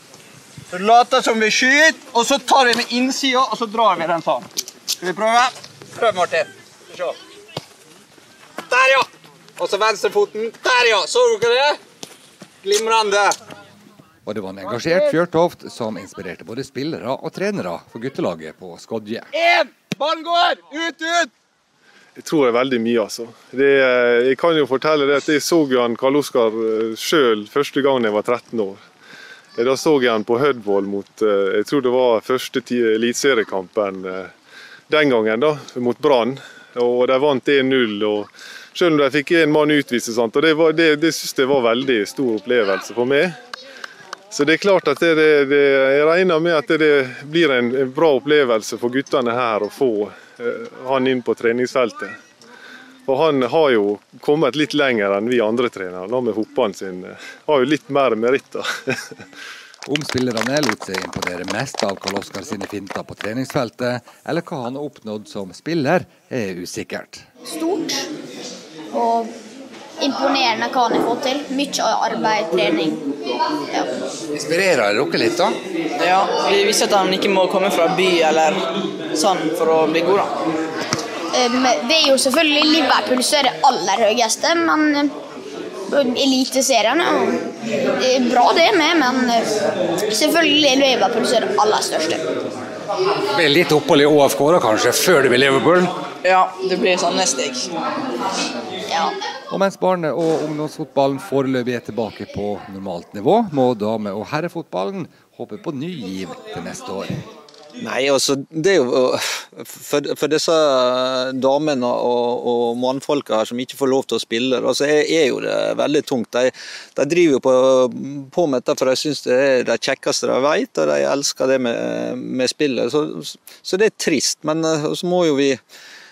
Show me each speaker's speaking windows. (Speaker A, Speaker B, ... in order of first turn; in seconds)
Speaker A: 0.7-7.2, 8.7-9.1, 9.6-11.8, 12.6-13.3, 14.7-15.2, 19.3-21.3, 107.8-125.6
Speaker B: 14.2-19.3, 59.9-67.2, 74.3-75.6, 93.3-96.0, 99.5-107.2
Speaker C: 22.2-28.8, 29.6-34.3, 34.9-43.3, 44.3-52.1, 53.1-58.6
Speaker D: 67.5-68.1, 68.9-69.3, 70.0-73.0, 81.3-85.1, 85.9-87.4, 88.0-89.5, 90.1-92.2, 98.9-99.1
Speaker E: 76.0-80.3, 96.2-97.7